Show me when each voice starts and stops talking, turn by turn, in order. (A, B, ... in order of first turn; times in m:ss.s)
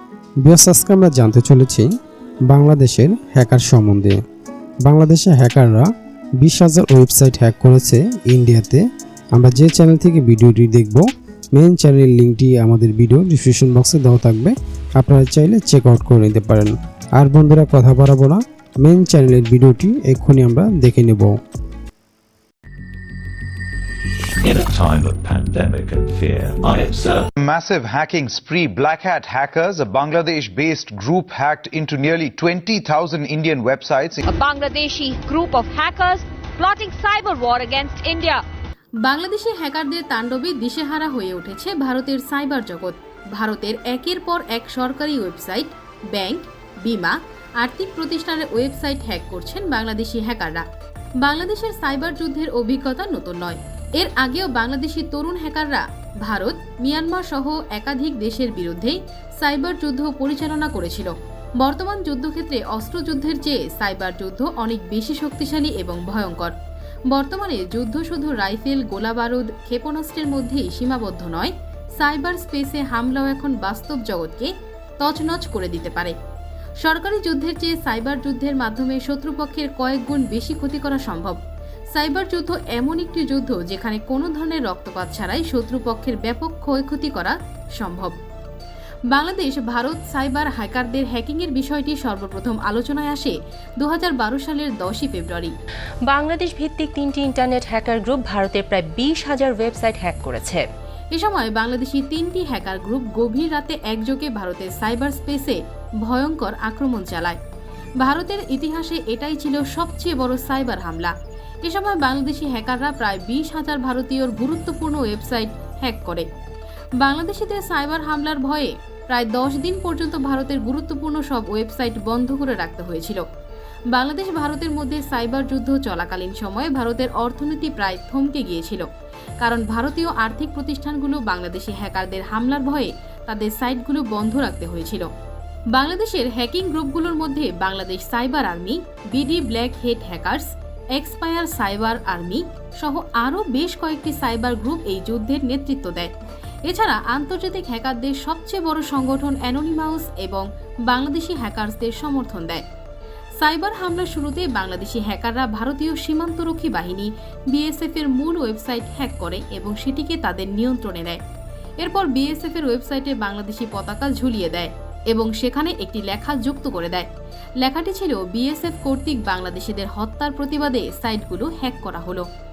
0:00.4-0:01.9 A
0:02.5-0:04.2 A
0:04.8-0:05.9 A
0:06.4-0:08.8 A
0:09.4-0:21.3 A
0:24.4-0:27.2 B
0:27.4-0:34.2 C
0:34.2-0:38.4 D
0:39.0-0:50.6 E
0:51.2-1:06.5 E
1:07.1-1:16.1 E
1:16.8-1:21.4 E
1:21.9-1:28.2 E
1:29.1-1:35.5 E
1:36.1-1:40.6 F
1:41.1-1:47.4 E
1:48.0-1:51.1 E
1:51.6-1:56.2 E
1:57.0-2:03.2 E
2:03.9-2:08.8 E
2:09.4-2:15.1 E
2:15.7-2:26.1 E
2:26.6-2:32.6 E
2:33.4-2:41.2 E
2:41.8-2:47.1 E
2:47.6-2:52.2 E